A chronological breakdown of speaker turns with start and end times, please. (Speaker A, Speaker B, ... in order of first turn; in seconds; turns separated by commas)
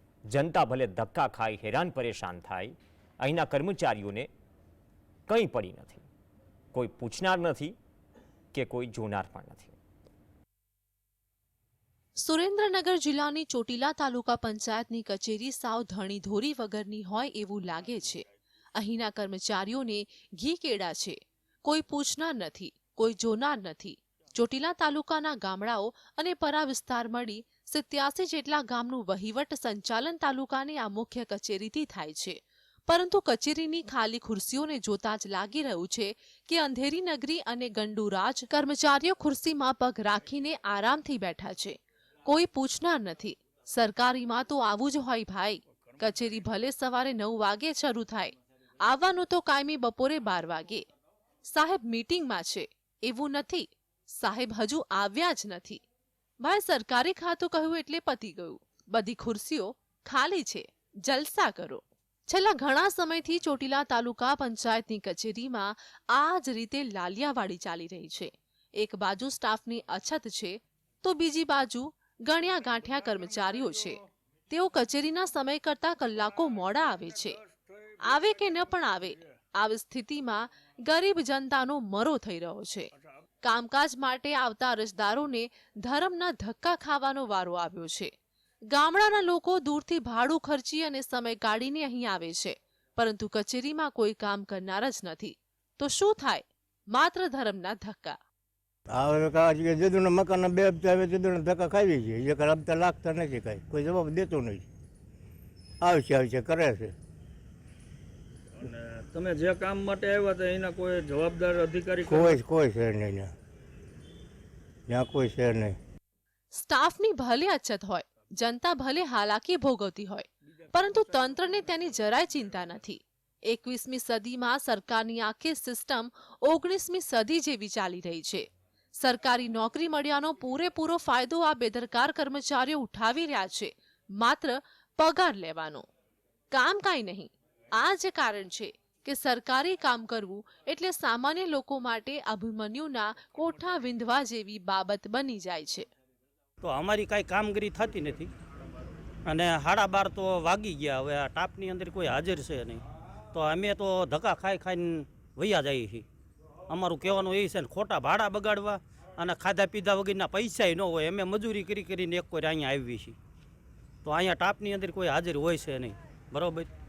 Speaker A: 0.3-4.3, Speaker A: 5.3-6.0, Speaker A: 6.7-7.7, Speaker A: 8.5-9.8, Speaker B: 12.2-18.2, Speaker B: 18.8-32.4, Speaker B: 32.9-48.3, Speaker B: 48.8-50.8, Speaker B: 51.4-55.8, Speaker B: 56.4-77.4, Speaker B: 78.1-82.9, Speaker B: 83.4-88.1, Speaker B: 88.7-98.2, Speaker C: 98.9-104.7, Speaker C: 105.8-106.9, Speaker D: 108.6-112.4, Speaker C: 112.1-113.3, Speaker C: 114.9-115.8, Speaker B: 116.5-128.4, Speaker B: 129.0-135.8, Speaker B: 136.5-145.8, Speaker E: 146.6-148.3, Speaker E: 149.2-156.1, Speaker E: 156.7-163.2, Speaker E: 164.0-166.7